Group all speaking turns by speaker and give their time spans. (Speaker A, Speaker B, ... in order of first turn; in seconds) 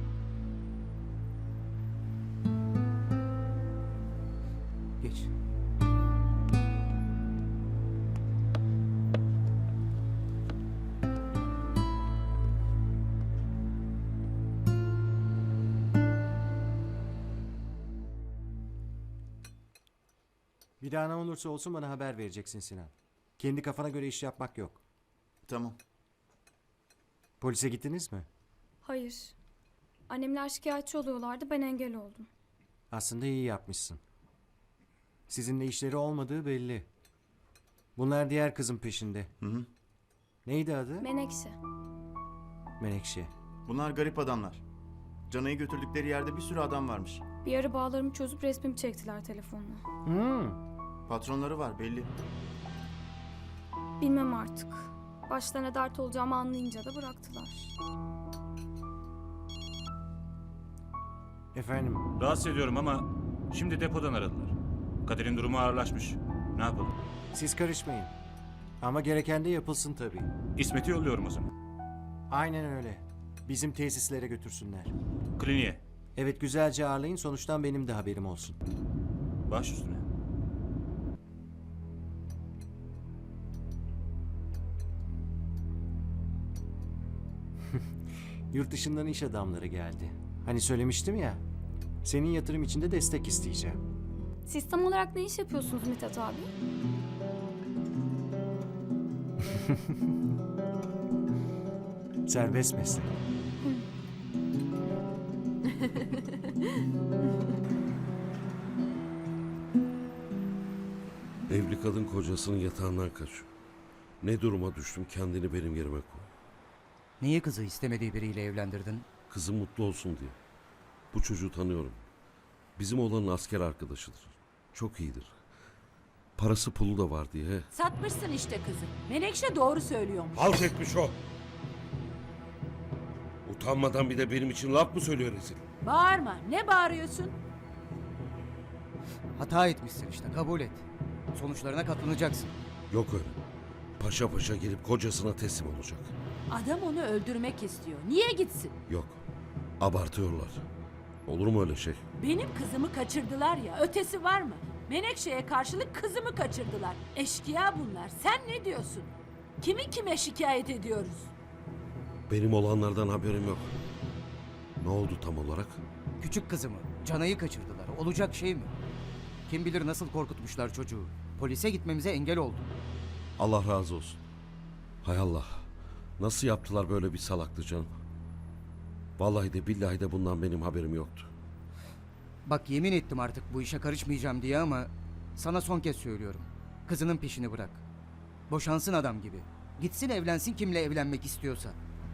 Speaker A: 5.0-5.3, 117.2-119.1, 139.4-142.5, 166.2-168.7, 169.5-172.7, 182.4-187.8, 188.5-191.8
Speaker B: 20.8-24.8, 27.4-28.3, 32.9-34.0, 35.3-36.9, 38.0-39.3, 40.5-41.1, 42.8-43.3, 50.1-50.6, 61.5-62.0, 67.3-68.1, 68.8-70.3, 72.3-74.9, 76.2-78.6, 88.5-91.4, 92.0-93.8, 102.3-103.1
Speaker C: 25.5-25.8, 39.4-39.7, 43.7-44.6, 45.3-47.2, 51.1-52.1
Speaker D: 28.8-29.4, 30.1-32.3, 41.0-41.6, 47.4-49.8, 54.0-57.7, 94.5-96.5
Speaker E: 62.2-64.5, 65.1-66.9, 70.6-71.5, 75.4-75.8, 79.5-80.0
Speaker F: 111.5-113.5, 114.2-116.3, 119.3-120.4, 121.1-122.0, 122.8-125.3, 126.4-127.7, 130.3-131.2, 133.4-135.6, 142.9-143.4, 144.0-146.1, 148.9-149.2, 149.8-150.6, 151.3-152.0, 162.3-163.7, 164.8-165.8, 173.4-174.2, 175.0-175.6, 176.2-177.9, 179.2-181.3
Speaker G: 127.7-130.7, 135.8-137.4, 146.5-148.8, 152.2-161.3